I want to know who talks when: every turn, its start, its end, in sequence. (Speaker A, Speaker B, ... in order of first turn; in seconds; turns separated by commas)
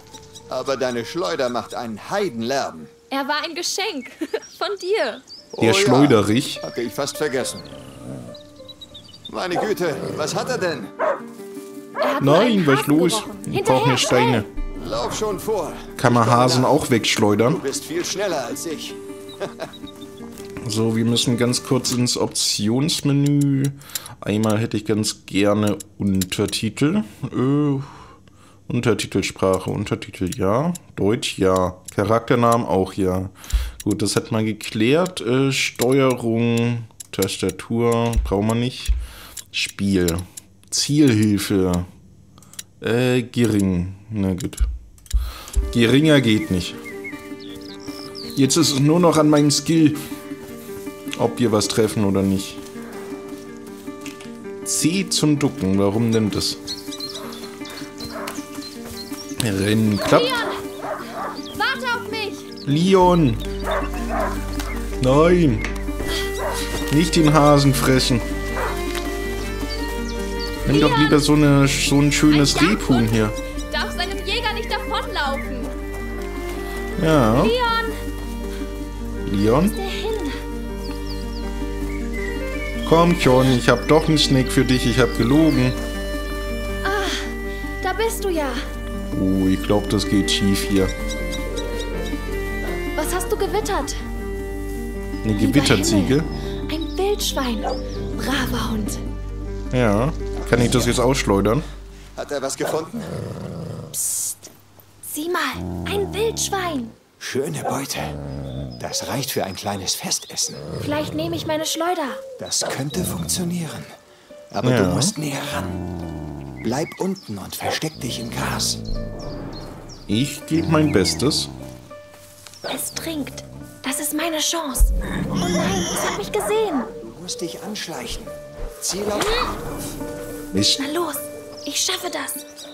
Speaker A: 0.5-2.9, Speaker B: 3.1-5.2, Speaker A: 5.5-7.7, Speaker C: 5.6-6.6, Speaker A: 9.3-10.9, Speaker B: 12.0-14.4, Speaker C: 12.2-14.5, Speaker A: 14.8-16.8, Speaker C: 16.0-17.6, Speaker A: 17.5-19.6, Speaker C: 20.6-28.0, Speaker C: 28.7-38.9, Speaker C: 39.5-41.9, Speaker C: 42.8-44.7, Speaker C: 45.7-46.8, Speaker C: 48.4-50.0, Speaker C: 51.1-52.6, Speaker C: 54.6-56.6, Speaker C: 59.4-60.5, Speaker B: 60.0-60.6, Speaker B: 61.5-62.5, Speaker C: 62.6-63.4, Speaker C: 65.0-65.6, Speaker C: 66.9-68.2, Speaker C: 70.6-73.3, Speaker B: 70.7-71.2, Speaker B: 72.3-73.1, Speaker B: 73.7-75.8, Speaker C: 77.0-77.5, Speaker B: 77.3-78.0, Speaker C: 79.2-79.8, Speaker B: 79.7-80.4, Speaker C: 82.8-85.8, Speaker B: 86.8-88.7, Speaker C: 89.1-90.9, Speaker B: 93.0-94.0, Speaker C: 95.2-96.3, Speaker B: 95.3-96.2, Speaker B: 96.7-99.0, Speaker C: 99.7-101.6, Speaker A: 102.2-103.1, Speaker B: 103.9-104.5, Speaker B: 105.0-106.9, Speaker A: 107.2-108.2, Speaker A: 108.8-110.7, Speaker B: 110.8-112.2, Speaker A: 112.4-113.9, Speaker A: 114.5-115.8, Speaker C: 114.6-115.1, Speaker A: 116.6-118.8, Speaker C: 120.1-121.5, Speaker B: 122.7-124.9, Speaker B: 125.4-126.9, Speaker A: 127.0-129.7, Speaker C: 130.5-130.8, Speaker B: 130.8-132.4